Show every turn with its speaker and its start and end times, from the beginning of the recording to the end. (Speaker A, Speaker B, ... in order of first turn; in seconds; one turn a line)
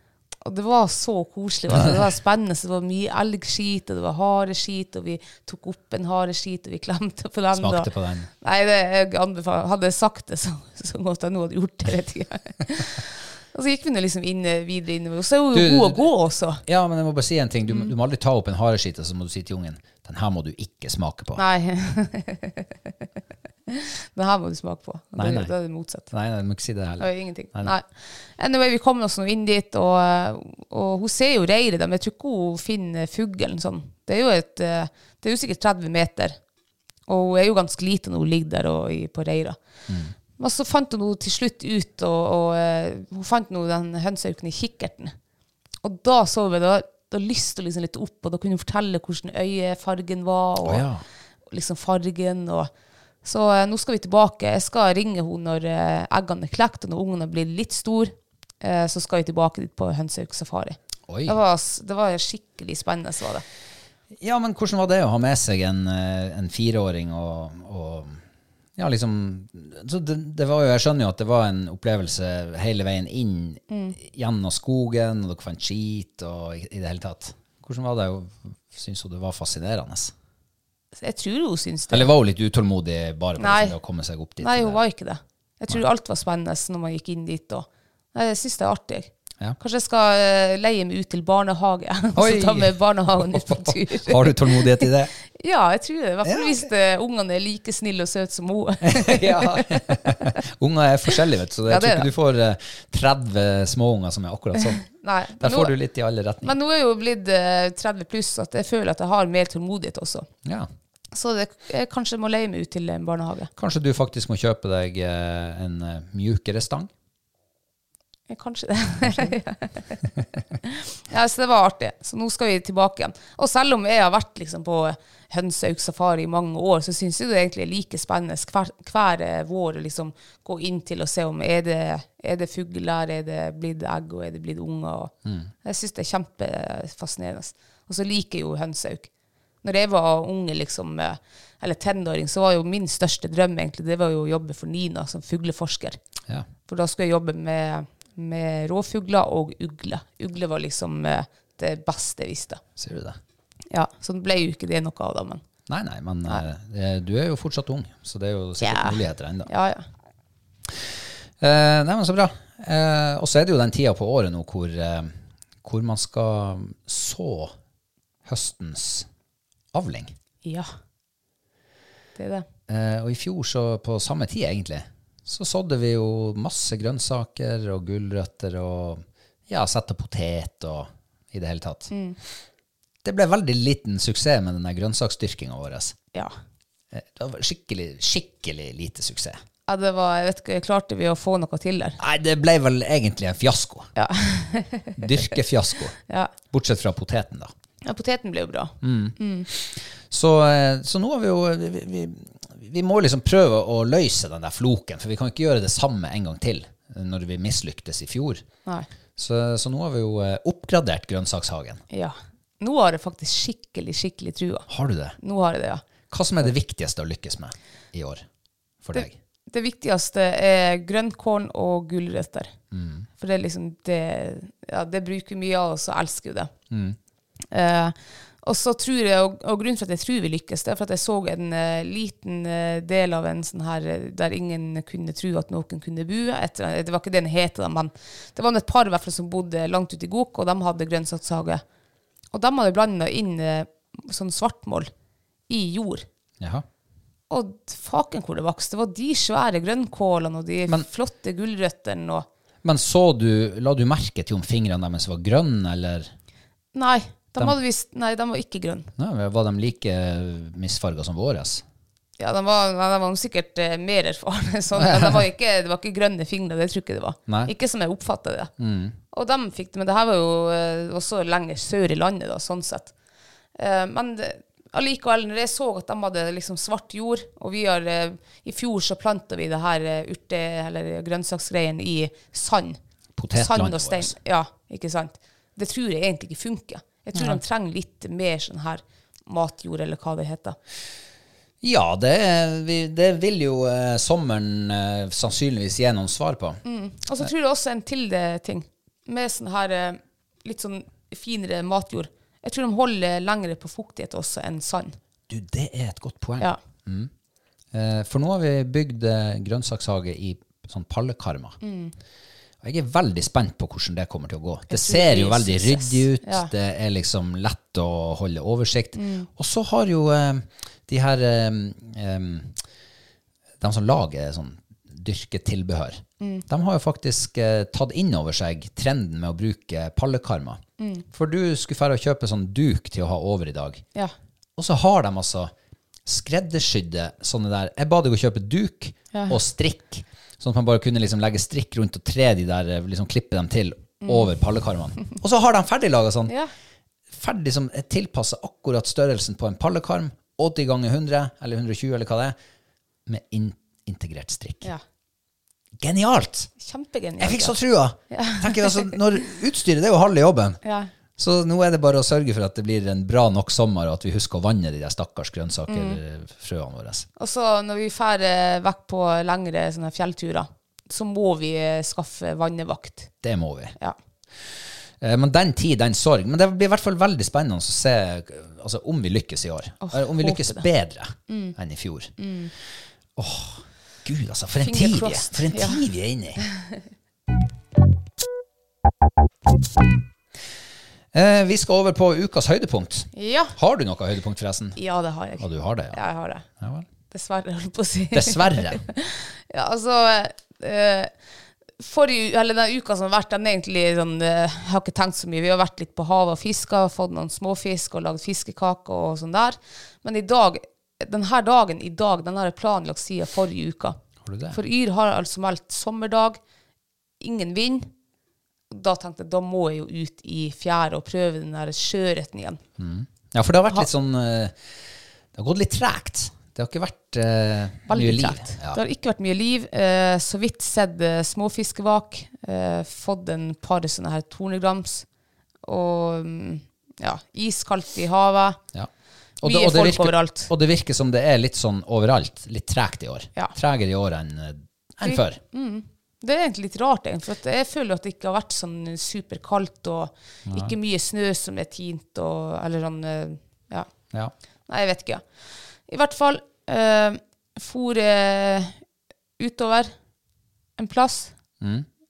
Speaker A: 0.4-7.9
Speaker B: 7.5-8.3
Speaker A: 8.4-16.6
Speaker B: 15.5-16.1
Speaker B: 16.7-21.4
Speaker A: 21.4-22.7
Speaker A: 23.7-26.1
Speaker B: 25.2-25.5
Speaker B: 26.1-27.7
Speaker A: 27.0-27.9
Speaker A: 28.4-36.4
Speaker A: 37.1-39.6
Speaker B: 39.9-40.1
Speaker A: 40.4-45.1
Speaker A: 45.8-50.9
Speaker B: 50.6-51.0
Speaker A: 51.5-52.7
Speaker A: 53.2-63.4
Speaker B: 61.1-61.4
Speaker B: 64.2-68.2
Speaker B: 68.8-80.1
Speaker A: 73.7-74.0
Speaker A: 81.0-82.1
Speaker B: 81.9-84.8
Speaker A: 83.4-83.8
Speaker A: 84.4-100.3
Speaker B: 92.2-95.1
Speaker B: 96.2-96.5
Speaker B: 98.8-104.8
Speaker A: 101.7-102.1
Speaker A: 104.8-105.7
Speaker B: 105.4-106.5
Speaker A: 106.4-110.3
Speaker A: 111.1-113.5
Speaker B: 113.6-116.9
Speaker A: 118.3-120.0
Speaker A: 120.6-135.1
Speaker B: 135.2-135.5
Speaker A: 135.6-139.1
Speaker A: 139.6-146.0
Speaker A: 146.7-152.6
Speaker B: 152.8-153.2
Speaker A: 153.7-155.4
Speaker B: 155.7-159.5
Speaker A: 158.6-159.8
Speaker B: 161.4-167.6
Speaker B: 168.2-169.1
Speaker B: 169.7-170.2
Speaker A: 170.4-170.7
Speaker A: 172.2-172.5
Speaker B: 172.7-181.9
Speaker A: 181.9-182.2
Speaker B: 183.1-186.0
Speaker B: 186.9-189.4
Speaker A: 189.7-192.0
Speaker B: 192.0-193.9
Speaker A: 194.0-195.3
Speaker B: 195.0-195.9
Speaker A: 196.0-196.3
Speaker B: 196.5-197.5
Speaker A: 197.8-199.5
Speaker B: 198.8-208.4
Speaker B: 209.2-211.8
Speaker A: 211.9-214.7
Speaker B: 214.7-215.2
Speaker A: 215.2-215.9
Speaker B: 216.1-218.2
Speaker B: 218.8-219.2
Speaker A: 218.9-222.5
Speaker B: 222.7-223.1
Speaker A: 223.2-226.5
Speaker B: 226.7-227.0
Speaker A: 227.5-241.6
Speaker A: 242.3-244.9
Speaker A: 245.5-246.1
Speaker B: 246.4-246.7
Speaker A: 247.3-252.3
Speaker B: 252.6-256.1
Speaker A: 256.8-258.9
Speaker B: 259.0-261.6
Speaker A: 262.2-268.5
Speaker B: 264.8-265.2
Speaker B: 268.6-269.0
Speaker A: 269.1-272.9
Speaker A: 273.6-282.8
Speaker B: 283.2-284.1
Speaker A: 283.4-290.6
Speaker B: 287.1-287.4
Speaker B: 291.6-296.6
Speaker A: 296.6-305.0
Speaker B: 305.3-307.1
Speaker B: 307.7-311.6
Speaker A: 311.6-311.9
Speaker B: 312.6-322.6
Speaker A: 314.7-316.5
Speaker A: 319.0-319.3
Speaker B: 323.6-330.6
Speaker A: 326.2-326.5
Speaker A: 330.8-331.1
Speaker B: 331.1-333.8
Speaker B: 334.6-335.5
Speaker B: 336.1-346.3
Speaker A: 344.1-344.3
Speaker B: 347.1-352.4
Speaker B: 353.1-354.7
Speaker B: 355.8-356.5
Speaker A: 356.6-357.6
Speaker B: 357.2-360.6
Speaker A: 358.1-359.0
Speaker A: 360.6-360.9
Speaker B: 361.2-367.1
Speaker A: 365.7-366.0
Speaker A: 367.2-373.1
Speaker B: 373.2-373.8
Speaker B: 375.0-382.1
Speaker A: 379.8-380.6
Speaker A: 381.3-381.6
Speaker A: 382.2-382.5
Speaker B: 383.2-386.4
Speaker A: 384.6-385.8
Speaker B: 391.1-394.8
Speaker A: 393.1-393.6
Speaker A: 394.8-396.4
Speaker B: 395.4-396.0
Speaker B: 396.6-396.9
Speaker A: 397.1-401.1
Speaker B: 398.1-398.8
Speaker A: 401.8-414.0
Speaker B: 414.2-414.6
Speaker A: 414.5-416.4
Speaker A: 417.2-417.9
Speaker A: 418.7-422.6
Speaker B: 422.8-424.6
Speaker B: 425.3-428.8
Speaker A: 427.9-435.1
Speaker A: 435.6-438.6
Speaker B: 439.4-445.4
Speaker A: 439.4-440.5
Speaker A: 445.0-453.9
Speaker B: 450.5-450.7
Speaker A: 454.7-455.2
Speaker A: 455.9-458.8
Speaker A: 459.4-459.9
Speaker A: 460.8-461.3
Speaker B: 461.6-461.9